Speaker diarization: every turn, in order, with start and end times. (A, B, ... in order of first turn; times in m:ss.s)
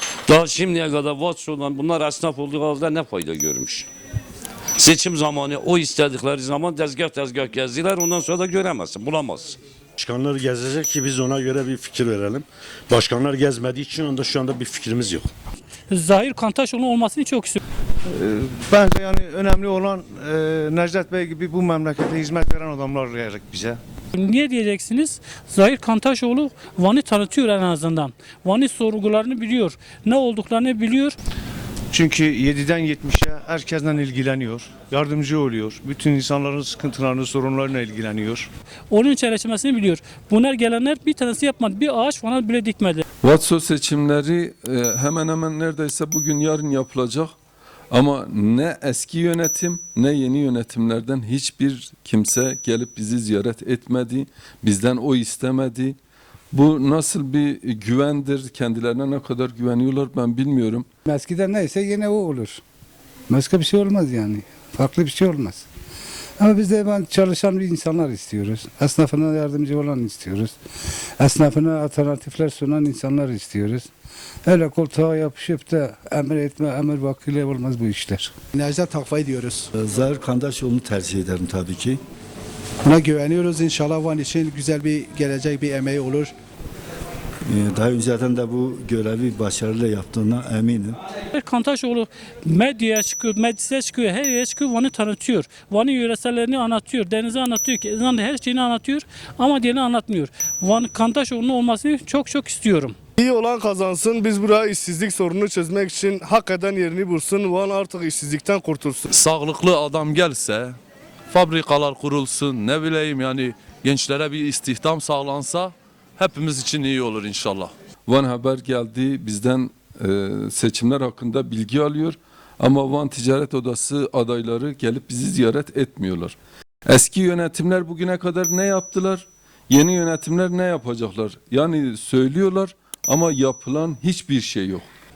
0:00.3-0:03.9 A
0:04.8-0:09.6 A
0:10.0-0:15.3 B
0:15.9-0:17.6 C
0:18.2-0:23.8 D
0:24.1-0:31.2 C
0:31.9-0:38.5 D
0:38.9-0:43.0 C
0:43.2-0:47.3 E
0:47.9-0:56.0 E
0:56.5-1:00.9 E
1:01.1-1:02.6 F
1:03.3-1:05.6 F
1:06.4-1:10.5 F
1:11.2-1:13.9 F
1:14.5-1:18.3 F
1:18.5-1:19.7 G
1:19.8-1:22.0 H
1:22.8-1:26.3 G
1:27.5-1:31.0 H
1:31.3-1:43.0 C
1:43.2-1:49.1 I
1:49.1-1:50.8 J
1:51.3-1:57.7 J
1:58.1-2:14.9 E